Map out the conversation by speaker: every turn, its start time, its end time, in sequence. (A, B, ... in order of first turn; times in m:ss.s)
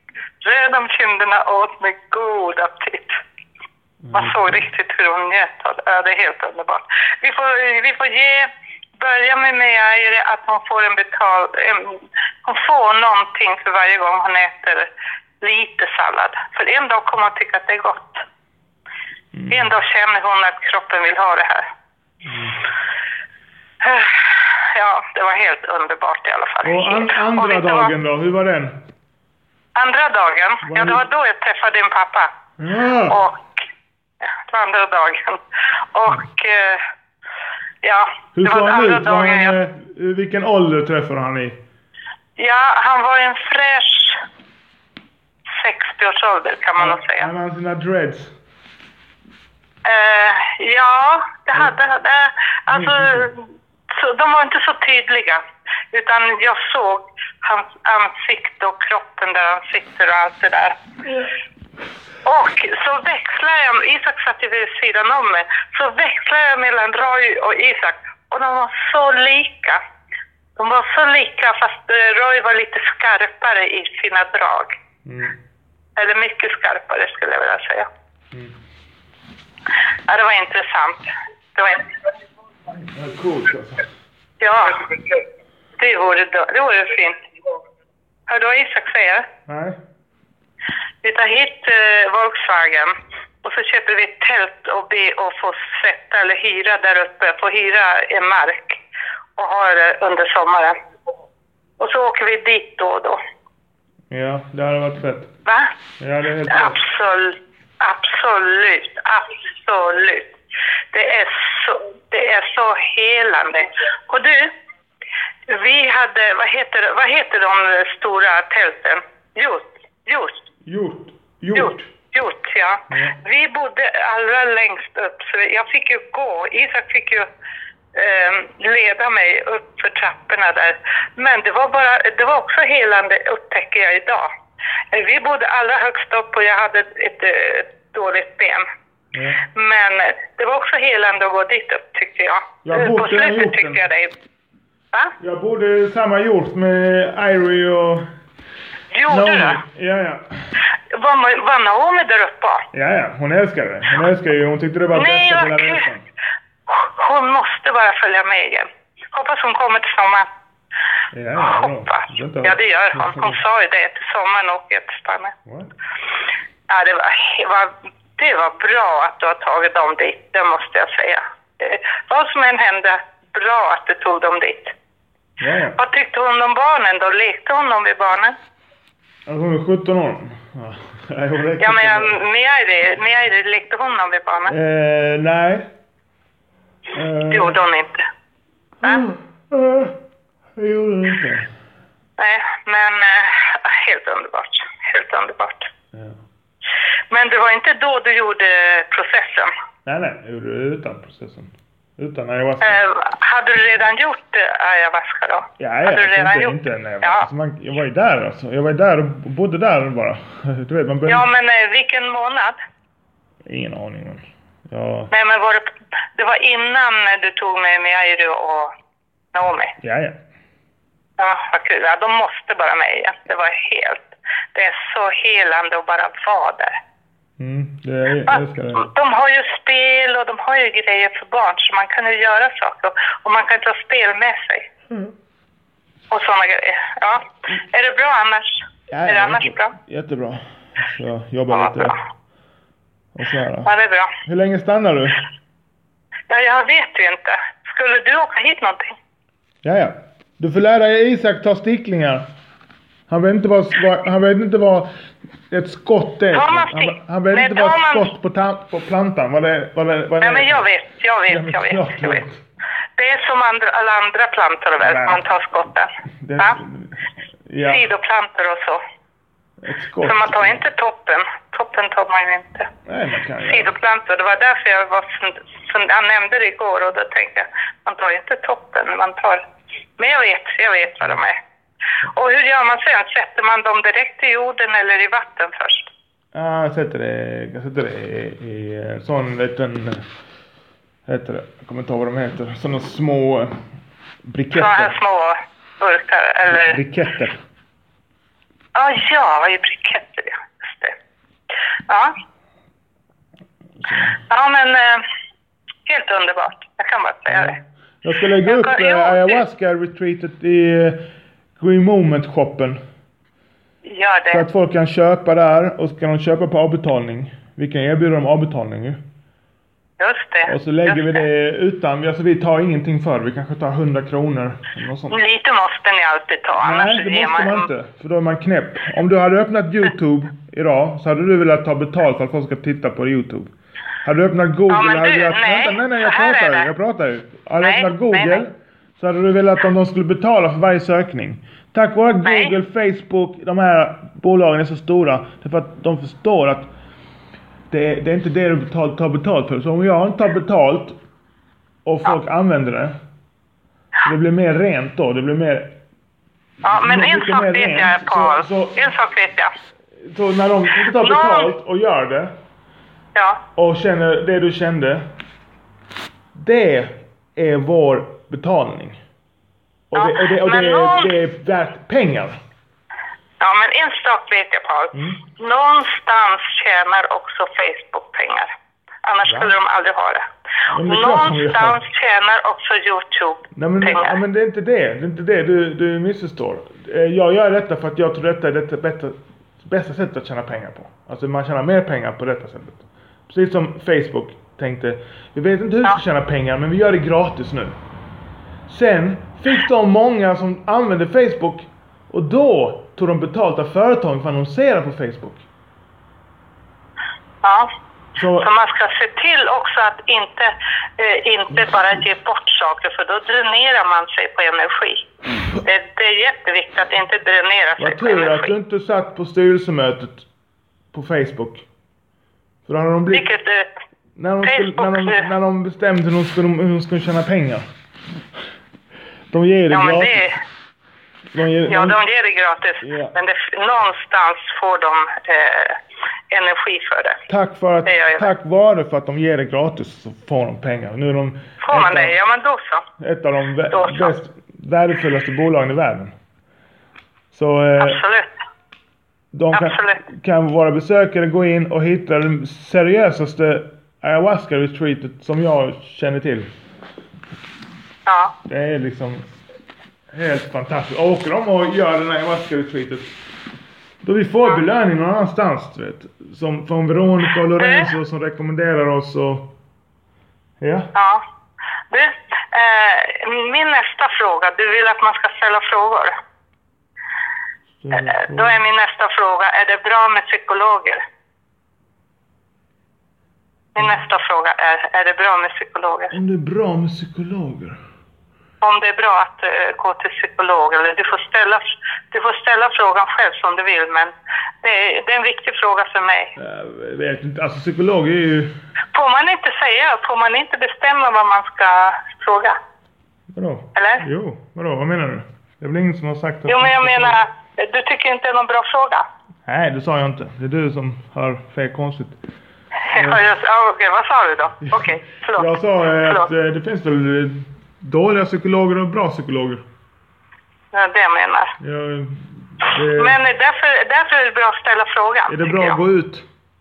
0:00.4-0:03.2 A
0:04.0-0:04.6 B
0:04.1-0:14.9 A
0:15.4-0:18.2 A
0:19.3-0:19.7 B
0:19.5-0:21.6 A
0:22.2-0:22.6 B
0:23.8-0:27.9 A
0:26.6-0:28.7 B
0:29.7-0:32.3 A
0:30.6-0:31.0 B
0:32.6-0:33.2 B
0:33.1-0:33.5 A
0:34.2-0:35.4 A
0:35.9-0:36.8 A
0:37.8-0:39.5 A
0:38.3-0:41.6 B
0:42.4-0:44.2 A
0:45.6-0:47.3 A
0:46.8-0:48.3 B
0:49.8-1:00.8 A
0:52.7-0:53.3 B
1:02.2-1:09.8 A
1:10.6-1:14.7 A
1:15.0-1:15.4 B
1:16.0-1:17.9 A
1:20.1-1:21.9 A
1:22.7-1:23.8 B
1:24.4-1:24.9 A
1:25.8-1:27.2 A
1:28.3-1:29.2 A
1:29.5-1:29.8 B
1:31.0-1:38.8 A
1:39.4-1:40.7 A
1:41.8-1:43.2 A
1:44.1-1:45.3 B
1:45.4-1:45.7 A
1:46.0-1:46.8 B
1:46.4-1:50.3 A
1:50.9-1:54.5 A
1:55.5-2:00.4 A
2:00.6-2:01.9 B
2:01.5-2:07.3 A
2:02.9-2:03.2 B
2:07.9-2:14.3 A
2:14.9-2:18.6 A
2:19.1-2:19.4 B
2:19.5-2:24.1 A
2:22.6-2:23.8 B
2:25.2-2:28.0 B
2:28.9-2:29.6 A
2:29.1-2:30.3 B
2:30.9-2:32.6 A
2:32.7-2:36.0 B
2:34.9-2:35.8 A
2:36.7-2:40.3 A
2:41.1-2:43.4 B
2:41.4-2:45.3 A
2:45.4-2:45.7 B
2:46.7-2:54.7 A
2:55.4-2:55.8 B
2:55.8-2:58.4 A
2:59.2-3:02.2 B
3:01.6-3:04.5 A
3:04.5-3:05.7 B
3:06.9-3:07.6 B
3:07.3-3:08.1 A
3:08.8-3:09.9 B
3:10.6-3:11.5 B
3:12.2-3:15.7 A
3:15.9-3:16.2 B
3:17.1-3:19.5 A
3:19.8-3:22.8 B
3:22.6-3:27.2 A
3:25.6-3:31.3 B
3:31.1-3:32.6 A
3:33.4-3:35.1 B
3:35.1-3:38.7 A
3:39.3-3:39.7 A
3:39.8-3:40.2 B
3:41.2-3:46.8 A
3:47.4-3:48.9 B
3:48.3-3:54.7 A
3:56.1-3:59.8 A
3:58.9-4:02.0 B
4:01.5-4:02.0 A
4:03.1-4:03.7 B
4:03.6-4:04.1 A
4:04.2-4:05.2 B
4:06.3-4:09.0 A
4:09.6-4:12.2 B
4:13.1-4:14.9 B
4:15.5-4:20.7 B
4:16.3-4:18.1 A
4:20.2-4:22.2 A
4:21.3-4:22.4 B
4:23.0-4:26.6 A
4:24.8-4:25.2 B
4:26.2-4:27.9 B
4:27.7-4:28.8 A
4:29.6-4:30.6 B
4:30.0-4:32.7 A
4:32.8-4:33.7 B
4:33.5-4:39.4 A
4:40.0-4:41.4 A
4:42.1-4:45.9 A
4:46.3-4:50.0 B
4:51.1-4:53.6 B
4:54.2-4:54.9 B
4:54.5-4:56.8 A
4:56.5-4:57.4 B
4:58.7-5:01.0 A
5:01.9-5:02.1 A
5:03.8-5:04.2 B
5:04.3-5:05.0 A
5:05.9-5:07.6 A
5:07.3-5:11.0 B
5:08.4-5:09.4 A
5:11.6-5:12.8 B
5:13.8-5:14.4 A
5:14.3-5:19.0 B
5:20.0-5:21.2 A
5:20.5-5:25.2 B
5:25.1-5:27.7 A
5:26.6-5:33.5 B
5:34.0-5:46.7 B
5:34.7-5:36.7 A
5:37.6-5:38.4 A
5:42.2-5:42.5 A
5:47.7-5:51.0 B
5:51.8-5:52.9 B
5:54.0-5:55.7 B
5:56.6-5:59.5 A
5:56.7-5:58.8 B
6:00.0-6:02.3 B
6:01.0-6:01.5 A
6:03.1-6:03.4 A
6:03.6-6:05.0 B
6:06.3-6:09.0 B
6:09.9-6:12.4 B
6:09.9-6:11.1 A
6:13.4-6:18.5 A
6:14.9-6:15.2 B
6:19.0-6:20.2 A
6:19.2-6:19.5 B
6:20.7-6:21.8 B
6:20.8-6:24.2 A
6:23.5-6:37.8 B
6:38.7-6:45.4 B
6:47.4-6:47.7 A
6:48.2-6:48.5 B
6:48.4-6:55.0 A
6:55.6-6:58.5 A
6:57.8-7:00.2 B
7:00.9-7:01.6 B
7:02.6-7:03.3 B
7:03.1-7:03.7 A
7:04.2-7:07.7 B
7:04.4-7:05.3 A
7:09.3-7:10.3 B
7:09.7-7:10.4 A
7:11.3-7:12.0 B
7:11.7-7:15.8 A
7:12.8-7:13.1 B
7:16.3-7:17.2 A
7:17.3-7:22.2 B
7:17.8-7:18.3 A
7:21.6-7:22.8 A
7:23.0-7:26.1 B
7:23.7-7:24.1 A
7:27.3-7:28.0 B
7:27.8-7:28.3 A
7:29.3-7:36.5 B
7:29.5-7:30.0 A
7:38.0-7:38.3 A
7:38.5-7:39.4 B
7:40.1-7:43.1 B
7:44.0-7:49.5 B
7:47.6-7:47.9 A
7:50.6-7:50.9 B
7:50.9-7:51.2 A
7:51.9-7:56.1 A
7:57.8-7:58.6 B
7:57.9-8:01.0 A
8:03.7-8:06.1 A
8:06.1-8:07.8 B
8:08.6-8:16.3 A
8:16.4-8:18.5 B
8:18.9-8:22.6 A
8:23.3-8:27.2 B
8:23.7-8:24.0 A
8:26.5-8:29.0 A
8:29.4-8:32.2 B
8:32.9-8:35.5 A
8:32.9-8:33.2 B
8:34.7-8:39.6 B
8:40.7-8:41.5 A
8:41.6-8:43.2 B
8:42.9-8:45.8 A
8:45.3-8:46.2 B